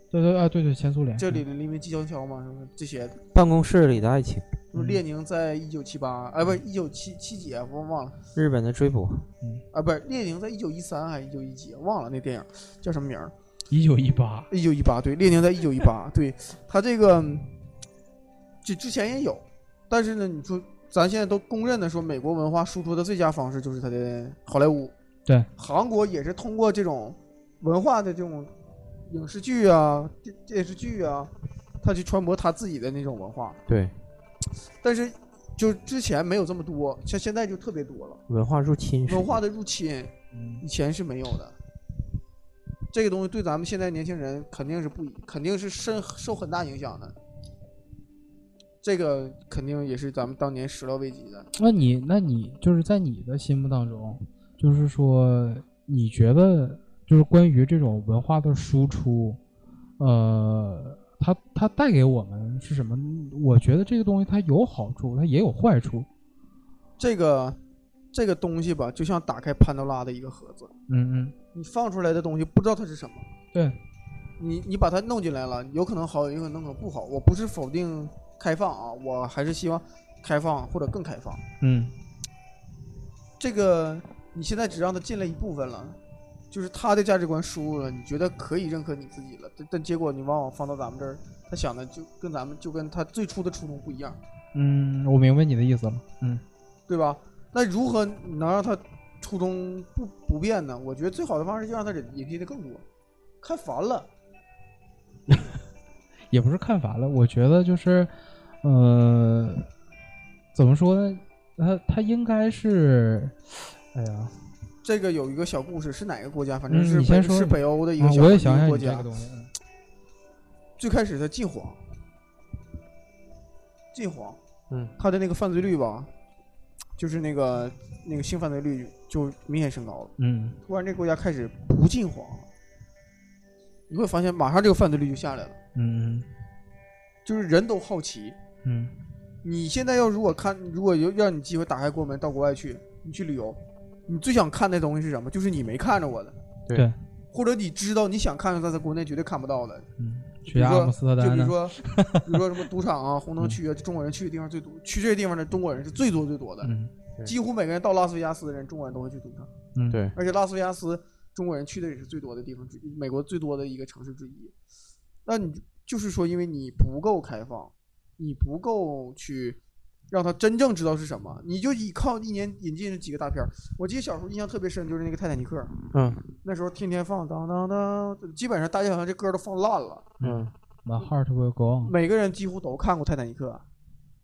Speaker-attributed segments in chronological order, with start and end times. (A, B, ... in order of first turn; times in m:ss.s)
0:00.1-0:01.4 A
0:01.2-0:03.2 B
0:03.3-0:04.6 C
0:04.7-0:08.2 B
0:08.4-0:09.3 C
0:09.7-0:13.3 B
0:13.7-0:14.5 A
0:14.5-0:17.5 B
0:18.6-0:24.9 B
0:25.6-0:28.5 B
0:29.1-0:31.3 B
0:31.8-0:33.6 B
0:33.7-0:33.9 C
0:34.8-0:38.2 B
0:38.3-0:39.4 C
0:39.1-0:41.6 B
0:40.3-0:40.6 A
0:42.9-0:47.2 B
0:48.8-0:51.5 B
0:51.6-0:59.4 A
1:00.0-1:06.1 A
1:07.0-1:07.6 B
1:08.1-1:10.7 B
1:10.9-1:11.3 A
1:11.5-1:13.3 B
1:13.5-1:13.8 A
1:14.4-1:21.4 B
1:21.6-1:21.9 A
1:23.4-1:26.0 B
1:26.5-1:34.2 B
1:34.5-1:36.4 A
1:36.9-1:42.8 B
1:43.4-1:44.1 B
1:46.3-1:48.1 A
1:48.6-1:49.7 A
1:50.5-1:54.3 A
1:54.8-1:59.1 B
1:56.7-1:59.5 A
2:00.8-2:01.8 B
2:03.9-2:04.4 B
2:05.0-2:06.1 B
2:07.0-2:12.5 B
2:10.2-2:10.6 A
2:13.9-2:15.6 B
2:15.7-2:16.3 A
2:17.2-2:18.4 B
2:18.6-2:18.9 A
2:19.4-2:26.4 B
2:27.3-2:29.9 B
2:30.0-2:32.4 A
2:30.5-2:36.7 B
2:36.6-2:36.9 A
2:37.2-2:39.5 B
2:39.7-2:40.0 A
2:39.9-2:40.2 C
2:40.1-2:44.5 B
2:45.2-2:49.6 B
2:50.1-2:55.7 B
2:55.9-2:56.2 C
2:56.4-3:00.2 B
3:00.2-3:01.9 A
3:00.2-3:00.5 C
3:01.8-3:03.6 B